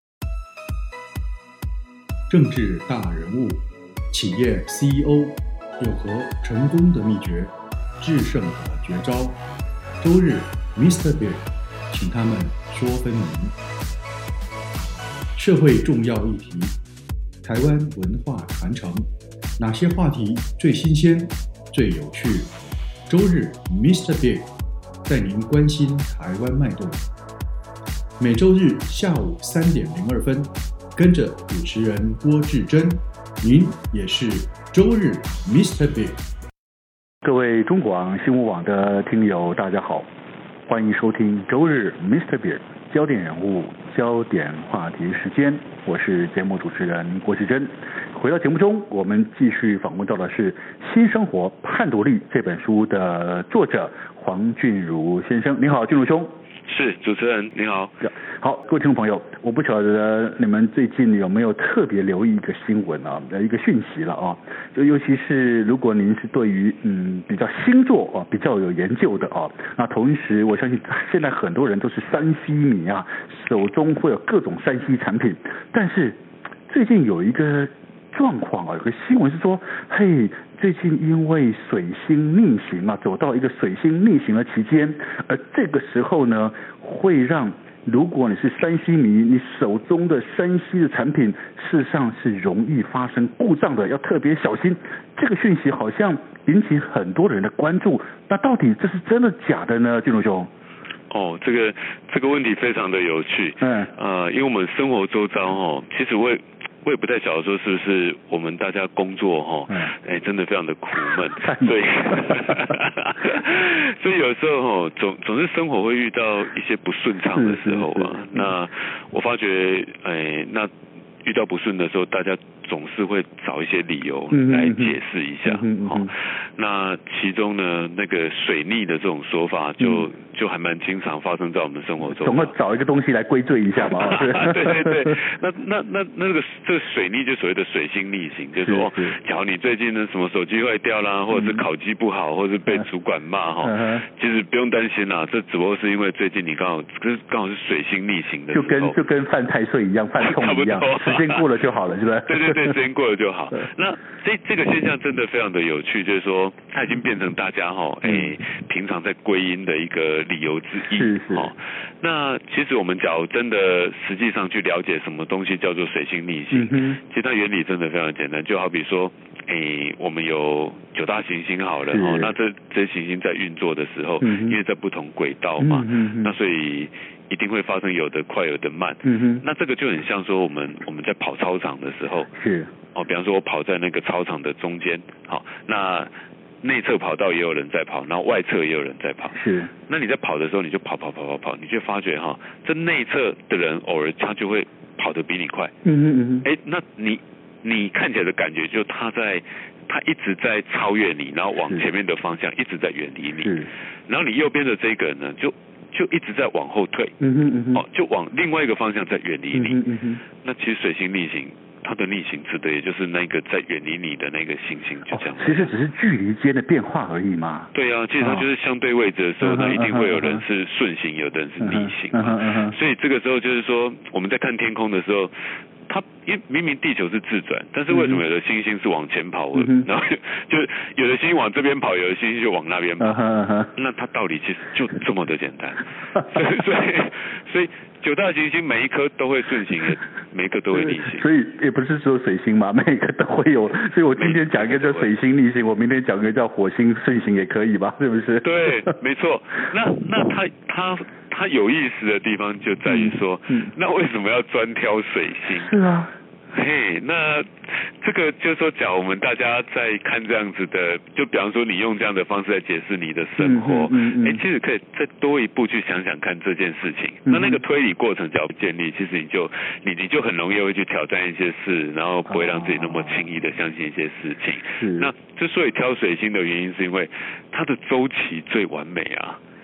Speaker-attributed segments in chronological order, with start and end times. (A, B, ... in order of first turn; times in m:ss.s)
0:02.3-0:09.4 A
0:10.0-0:13.6 A
0:15.4-0:16.8 A
0:17.4-0:22.5 A
0:23.1-0:24.5 A
0:25.0-0:27.0 A
0:28.2-0:36.2 A
0:37.2-0:40.1 B
0:40.7-0:56.3 B
0:56.6-0:58.0 C
0:58.0-1:40.5 B
1:41.1-2:00.7 C
1:43.6-1:43.9 B
1:51.4-1:52.7 B
1:57.3-1:58.5 B
2:01.2-2:12.5 C
2:04.3-2:06.1 B
2:09.8-2:10.0 B
2:12.1-2:15.1 B
2:13.8-2:29.0 C
2:18.6-2:19.2 B
2:21.3-2:21.6 B
2:23.6-2:24.0 B
2:28.5-2:32.7 B
2:30.2-2:31.5 C
2:32.2-3:02.3 C
2:38.0-2:38.3 B
2:40.9-2:41.5 B
2:46.5-2:47.0 B
2:51.9-2:52.3 B
2:54.2-2:54.6 B
2:55.6-2:56.3 B
2:59.0-2:59.4 B
3:02.3-3:02.7 B
3:02.9-3:15.7 C
3:09.3-3:09.7 B
3:15.8-3:16.4 B
3:16.4-3:23.5 C
3:23.4-3:23.7 B
3:24.1-3:27.1 C
3:27.2-3:27.8 B
3:27.7-3:29.8 C
3:29.5-3:30.2 B
3:30.4-3:35.7 C
3:35.1-3:38.5 B
3:37.7-3:53.2 C
3:39.4-3:40.4 B
3:41.6-3:42.7 B
3:47.9-3:48.2 B
3:49.6-3:49.9 B
3:53.0-3:53.7 B
3:53.7-4:01.2 C
4:00.7-4:08.9 B
4:04.2-4:05.1 C
4:08.4-4:15.7 C
4:12.8-4:13.7 B
4:15.5-4:16.1 B
4:16.5-4:39.4 C
4:23.4-4:24.4 B
4:27.2-4:27.6 B
4:32.3-4:33.2 B
4:34.8-4:35.1 B